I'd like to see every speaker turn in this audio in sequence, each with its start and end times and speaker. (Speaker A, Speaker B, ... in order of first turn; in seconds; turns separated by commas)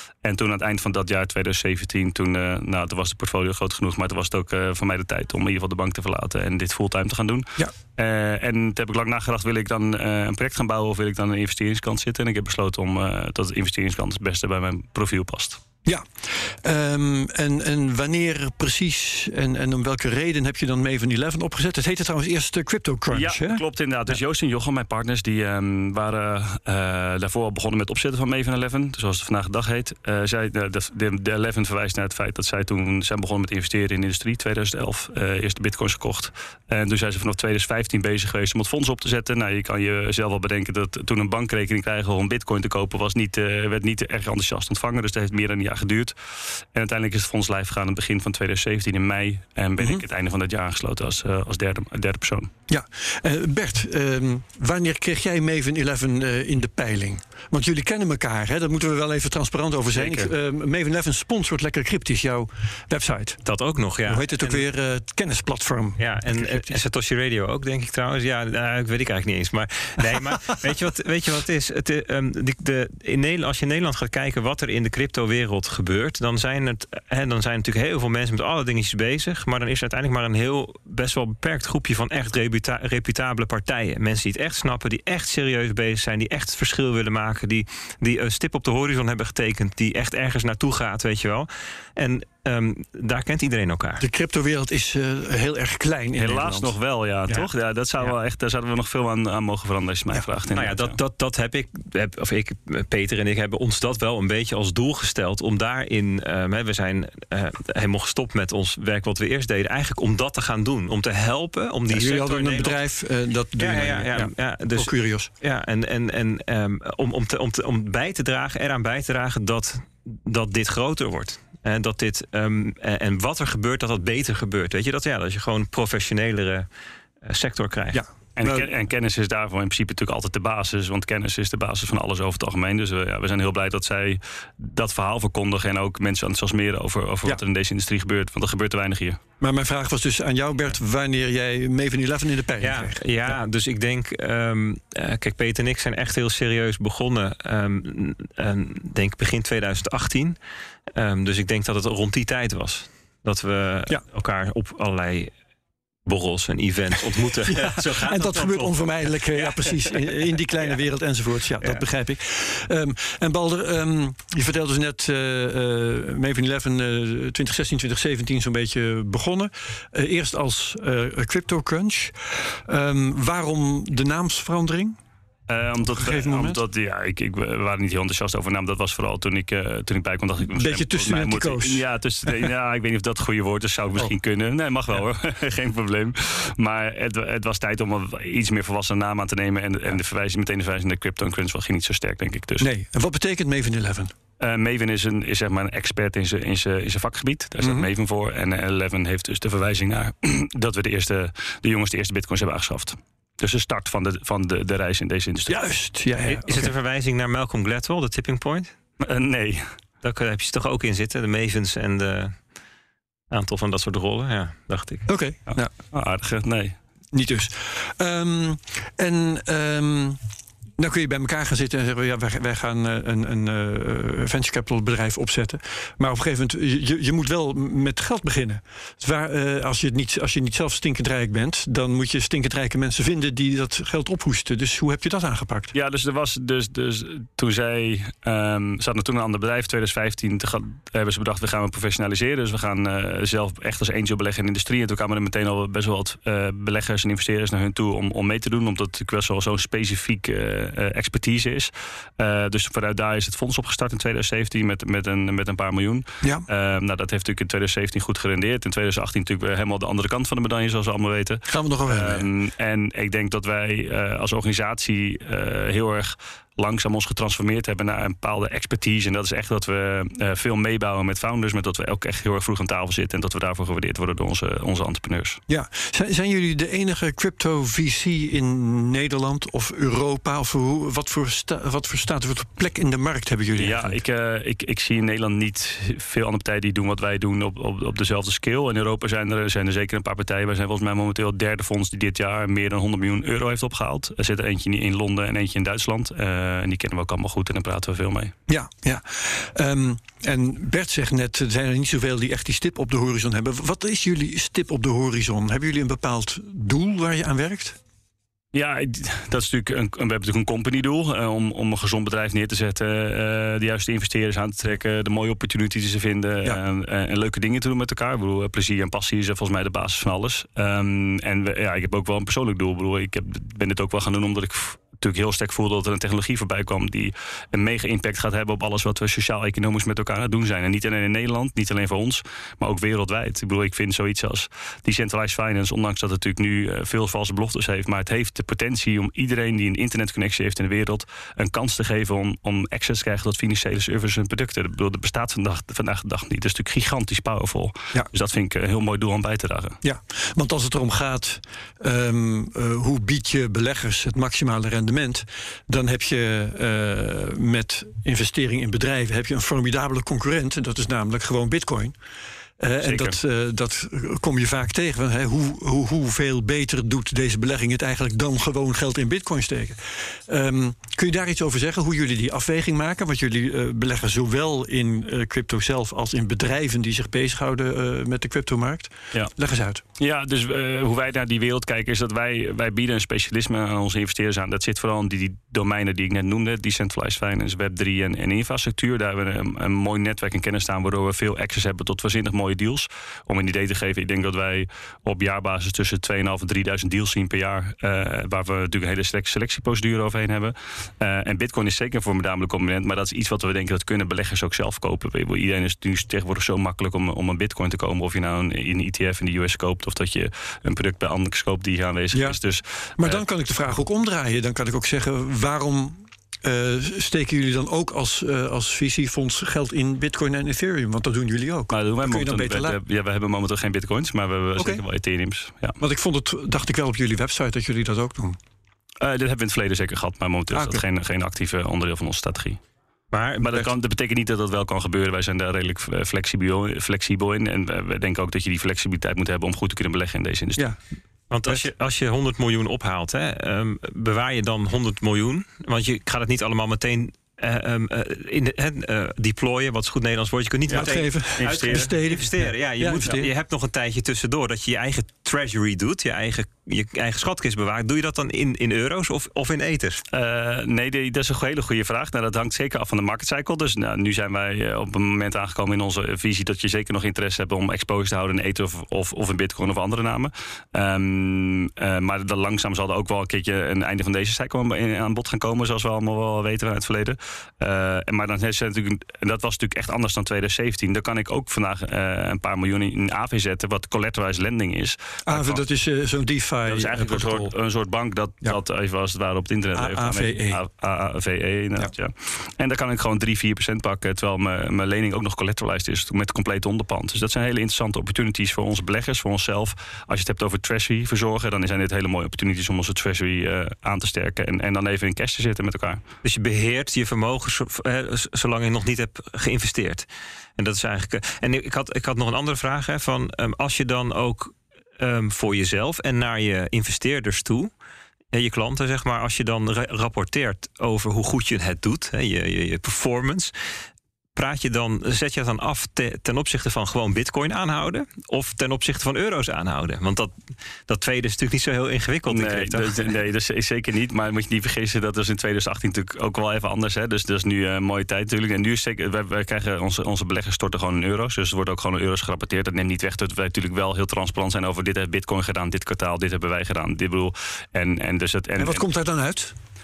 Speaker A: 0.2-15.6, Speaker B: 15.8-23.6, Speaker A: 23.1-52.5, Speaker B: 49.8-50.0, Speaker B: 52.7-63.4, Speaker A: 59.9-60.3, Speaker C: 63.4-64.7, Speaker B: 64.1-66.8, Speaker C: 66.0-94.0, Speaker B: 94.0-96.7, Speaker A: 96.2-101.0, Speaker C: 100.5-112.8, Speaker B: 111.9-115.3, Speaker C: 113.6-126.7, Speaker C: 127.2-128.0, Speaker B: 127.9-128.7, Speaker A: 128.4-139.2, Speaker B: 139.4-143.0, Speaker C: 142.6-150.3, Speaker C: 150.9-155.3, Speaker C: 156.1-160.1, Speaker B: 157.4-175.0, Speaker A: 175.5-192.7, Speaker B: 175.8-176.6, Speaker B: 180.5-182.5, Speaker B: 192.6-194.1, Speaker A: 194.4-205.6, Speaker B: 197.6-197.9, Speaker B: 205.5-206.7, Speaker C: 206.2-208.7, Speaker A: 209.0-209.7, Speaker C: 210.0-212.4, Speaker C: 213.3-215.1, Speaker B: 215.1-215.7, Speaker A: 215.5-216.8, Speaker B: 217.1-220.2, Speaker B: 220.8-235.7, Speaker A: 235.7-275.4, Speaker B: 261.5-262.3, Speaker B: 275.5-284.0, Speaker A: 283.5-298.3, Speaker B: 298.5-307.8, Speaker A: 308.5-349.8, Speaker B: 349.8-361.9, Speaker B: 362.6-379.8, Speaker A: 362.8-363.2, Speaker A: 380.0-413.2, Speaker B: 412.1-412.4, Speaker B: 413.0-422.8, Speaker A: 421.7-425.8, Speaker B: 424.6-424.8, Speaker B: 425.8-428.4, Speaker A: 429.0-432.6, Speaker B: 430.5-430.8, Speaker C: 433.1-433.7, Speaker A: 433.4-440.7, Speaker C: 441.3-460.0, Speaker A: 450.7-451.9, Speaker B: 450.7-453.3, Speaker A: 460.1-485.6, Speaker B: 485.3-487.5, Speaker A: 486.7-506.0, Speaker B: 489.7-490.6, Speaker C: 506.2-510.1, Speaker C: 510.6-517.7, Speaker C: 518.3-523.5, Speaker C: 524.3-530.3, Speaker C: 530.9-533.1, Speaker A: 532.3-548.8, Speaker B: 548.6-549.5